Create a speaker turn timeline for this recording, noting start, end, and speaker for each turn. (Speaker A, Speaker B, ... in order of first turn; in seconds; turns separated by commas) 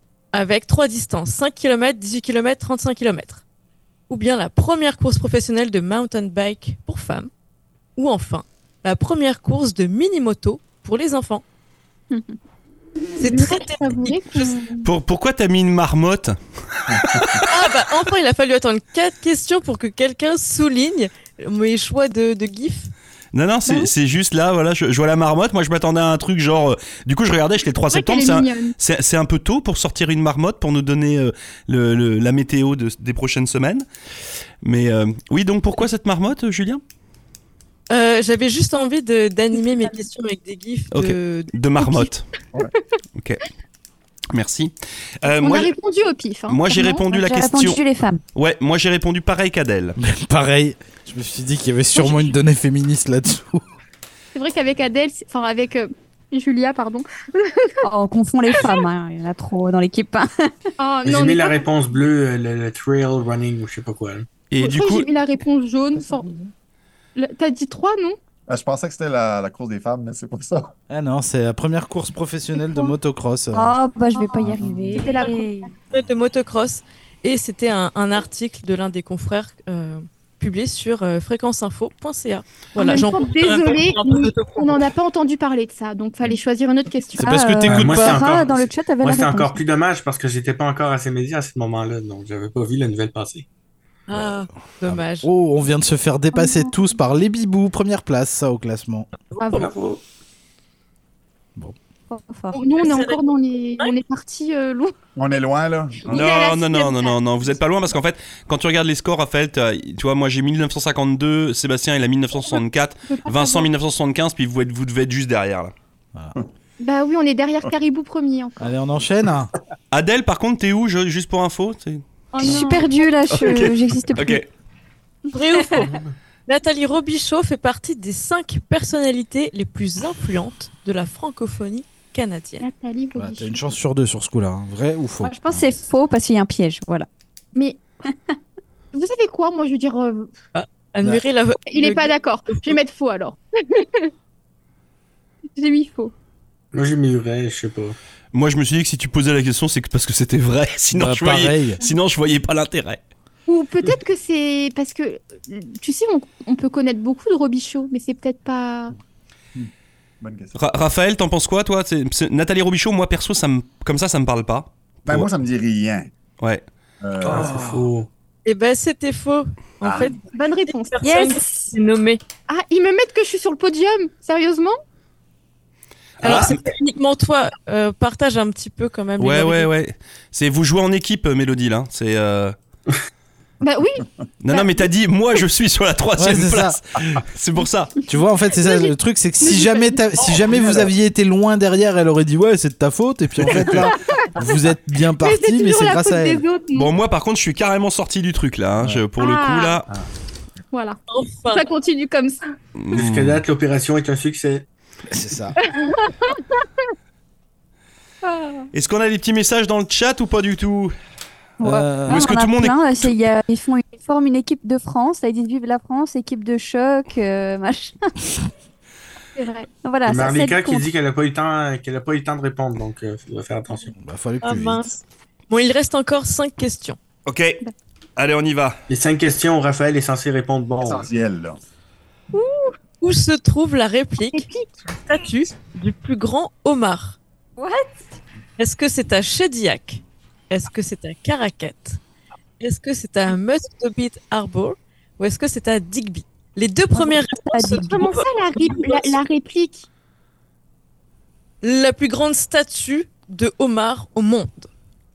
Speaker A: 0.3-3.4, Speaker A: 4.1-7.3, Speaker A: 8.0-11.4, Speaker B: 12.1-12.3, Speaker B: 13.1-14.9, Speaker A: 13.2-14.5, Speaker C: 14.8-17.5, Speaker D: 16.9-17.4, Speaker A: 17.4-22.9, Speaker C: 23.3-33.9, Speaker B: 27.9-28.7, Speaker C: 34.6-36.8, Speaker A: 37.9-41.9, Speaker C: 40.9-42.3, Speaker C: 43.1-43.4, Speaker C: 44.3-45.7, Speaker B: 45.2-47.0, Speaker C: 46.5-47.8, Speaker E: 47.1-48.2, Speaker C: 48.3-50.0, Speaker F: 50.0-53.6, Speaker B: 52.0-52.3, Speaker B: 54.3-57.8, Speaker E: 57.8-60.5, Speaker B: 58.5-58.8, Speaker B: 60.8-61.7, Speaker G: 61.0-64.3, Speaker C: 64.5-65.1, Speaker B: 64.6-66.3, Speaker D: 66.0-66.3, Speaker B: 67.2-68.2, Speaker D: 68.5-70.7, Speaker F: 70.9-73.7, Speaker E: 73.5-75.7, Speaker B: 74.1-75.4, Speaker A: 74.9-84.9, Speaker B: 82.7-87.3, Speaker F: 87.2-88.2, Speaker E: 87.2-89.6, Speaker G: 87.7-93.5, Speaker A: 94.1-95.3, Speaker F: 94.9-99.1, Speaker A: 99.3-99.7, Speaker B: 99.4-99.7, Speaker G: 99.5-100.0, Speaker E: 102.1-102.6, Speaker B: 102.5-104.9, Speaker A: 102.8-103.2, Speaker D: 105.2-106.2, Speaker B: 106.0-107.2, Speaker C: 106.0-115.7, Speaker B: 112.5-113.7, Speaker B: 116.8-118.7, Speaker F: 118.6-119.5, Speaker C: 119.9-122.0, Speaker B: 122.3-123.0, Speaker E: 122.4-124.4, Speaker C: 123.3-124.5, Speaker A: 125.3-126.0, Speaker G: 125.8-126.1, Speaker A: 126.5-132.6, Speaker B: 132.6-133.6, Speaker F: 133.2-135.7, Speaker E: 135.2-137.1, Speaker B: 137.5-137.8, Speaker B: 138.9-140.3, Speaker A: 140.5-142.7, Speaker B: 141.7-144.1, Speaker B: 145.6-146.1, Speaker G: 146.7-147.9, Speaker C: 148.3-153.0, Speaker F: 150.9-151.8, Speaker B: 153.5-158.9, Speaker D: 159.6-160.6, Speaker C: 160.5-165.3, Speaker D: 165.1-166.1, Speaker D: 167.0-167.7, Speaker G: 167.3-168.1, Speaker F: 167.3-167.8, Speaker A: 168.4-172.2, Speaker D: 169.8-170.2, Speaker B: 170.3-171.4, Speaker E: 171.0-171.5, Speaker B: 172.5-174.8, Speaker C: 176.2-176.6, Speaker A: 176.2-179.7, Speaker C: 179.2-182.5, Speaker B: 183.6-184.9, Speaker C: 184.4-187.9, Speaker F: 186.2-186.8, Speaker F: 188.1-196.4, Speaker B: 188.6-190.4, Speaker D: 193.4-193.9, Speaker B: 193.7-194.3, Speaker B: 195.2-196.9, Speaker C: 196.7-199.8, Speaker B: 199.2-199.8, Speaker B: 200.7-202.4, Speaker A: 201.1-201.6, Speaker C: 202.8-203.4, Speaker G: 202.9-204.7, Speaker F: 205.1-205.6, Speaker B: 205.6-206.7, Speaker B: 208.2-208.7, Speaker C: 208.7-210.9, Speaker E: 211.6-218.1, Speaker F: 211.6-212.3, Speaker C: 212.1-213.2, Speaker B: 219.3-219.7, Speaker E: 219.8-220.9, Speaker G: 220.0-223.9, Speaker F: 224.0-224.9, Speaker A: 224.4-227.0, Speaker C: 227.2-227.6, Speaker C: 228.2-228.8, Speaker G: 228.9-231.1, Speaker D: 230.8-231.6, Speaker B: 232.3-232.7, Speaker A: 233.0-237.2, Speaker B: 234.3-234.7, Speaker E: 237.6-238.0, Speaker A: 238.6-242.0, Speaker A: 242.6-249.2, Speaker E: 246.9-248.1, Speaker B: 247.9-249.9, Speaker A: 251.6-254.7